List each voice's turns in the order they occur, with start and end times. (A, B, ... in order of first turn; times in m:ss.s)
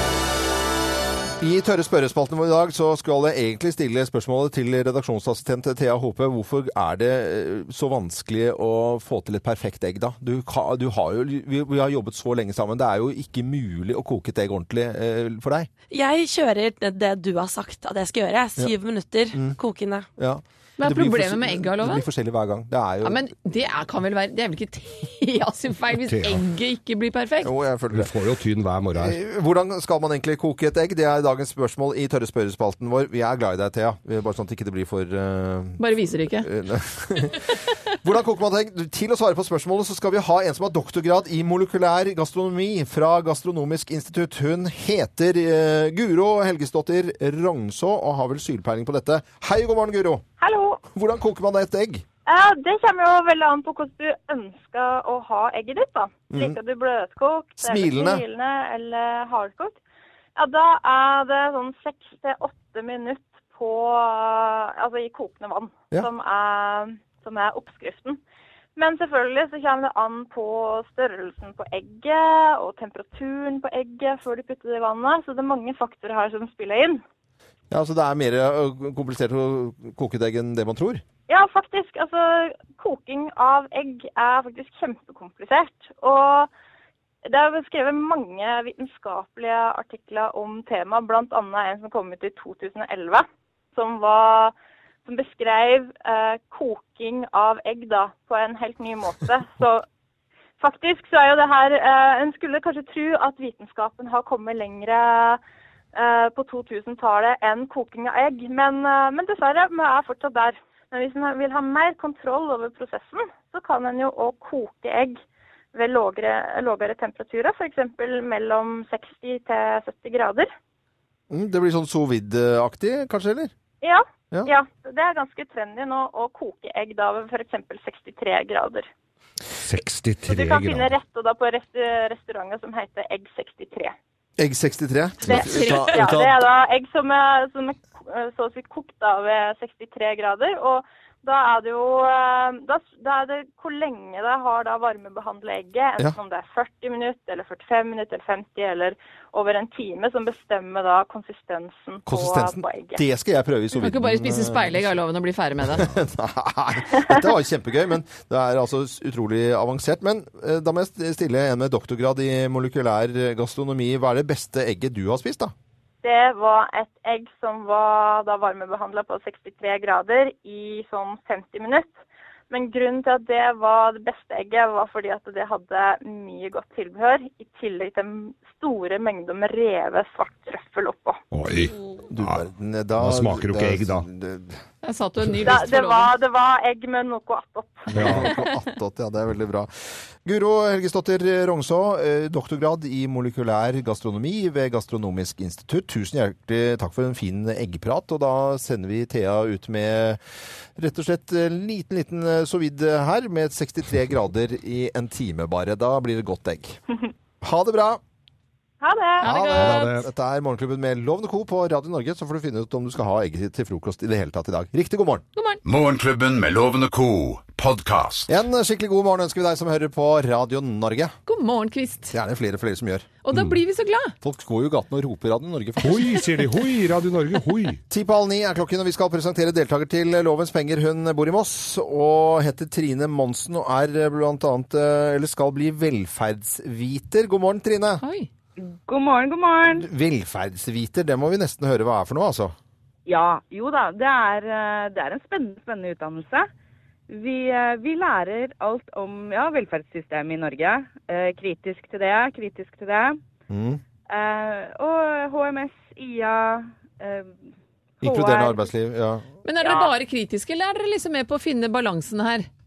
0:01.4-0:15.7 A
0:15.9-0:20.1 B
0:19.3-0:19.6 A
0:20.2-0:23.3 A
0:20.8-0:22.0 C
0:23.0-0:27.5 C
0:26.1-0:26.4 D
0:27.4-0:28.1 A
0:27.9-0:29.2 D
0:28.9-0:35.8 A
0:35.8-0:36.5 C
0:36.4-0:50.2 A
0:50.4-0:50.8 E
0:50.9-0:52.0 A
0:52.3-0:59.8 E
0:56.3-0:56.6 A
0:57.6-0:58.2 A
1:00.4-1:08.2 E
1:08.8-1:17.0 E
1:17.7-1:21.0 A
1:21.3-1:26.5 E
1:27.2-1:34.5 E
1:35.0-1:39.8 E
1:40.6-1:45.4 E
1:45.9-1:55.2 E
1:55.7-2:00.5 E
2:01.3-2:03.5 A
2:03.8-2:08.9 E
2:09.6-2:10.9 D
2:10.2-2:13.9 E
2:14.4-2:16.4 A
2:15.2-2:33.0 E
2:15.4-2:15.9 C
2:32.0-2:35.0 A
2:33.7-2:35.8 C
2:35.6-2:45.5 A
2:46.0-2:51.9 E
2:52.5-3:01.2 E
3:01.3-3:02.4 D
3:02.1-3:04.6 A
3:03.0-3:04.0 D
3:04.8-3:06.1 C
3:05.4-3:07.9 E
3:07.9-3:09.7 A
3:07.9-3:08.3 D
3:10.2-3:20.2 A
3:20.8-3:26.8 A
3:27.4-3:28.0 A
3:28.8-3:29.3 E
3:29.2-3:30.1 C
3:29.2-3:35.2 A
3:29.6-3:30.0 D
3:35.4-3:35.6 C
3:35.6-3:38.3 F
3:38.3-3:41.2 A
3:41.3-3:42.1 C
3:42.1-3:43.1 A
3:43.2-3:44.1 C
3:44.2-3:46.2 A
3:45.8-3:47.8 D
3:47.9-3:58.0 A
3:58.0-3:58.3 C
3:58.6-3:59.8 G
3:59.7-4:02.5 A
4:03.0-4:06.5 G
4:07.1-4:13.2 G
4:13.5-4:13.8 A
4:14.1-4:17.4 G
4:18.0-4:18.7 G
4:18.0-4:19.3 A
4:19.4-4:22.5 C
4:19.6-4:19.9 G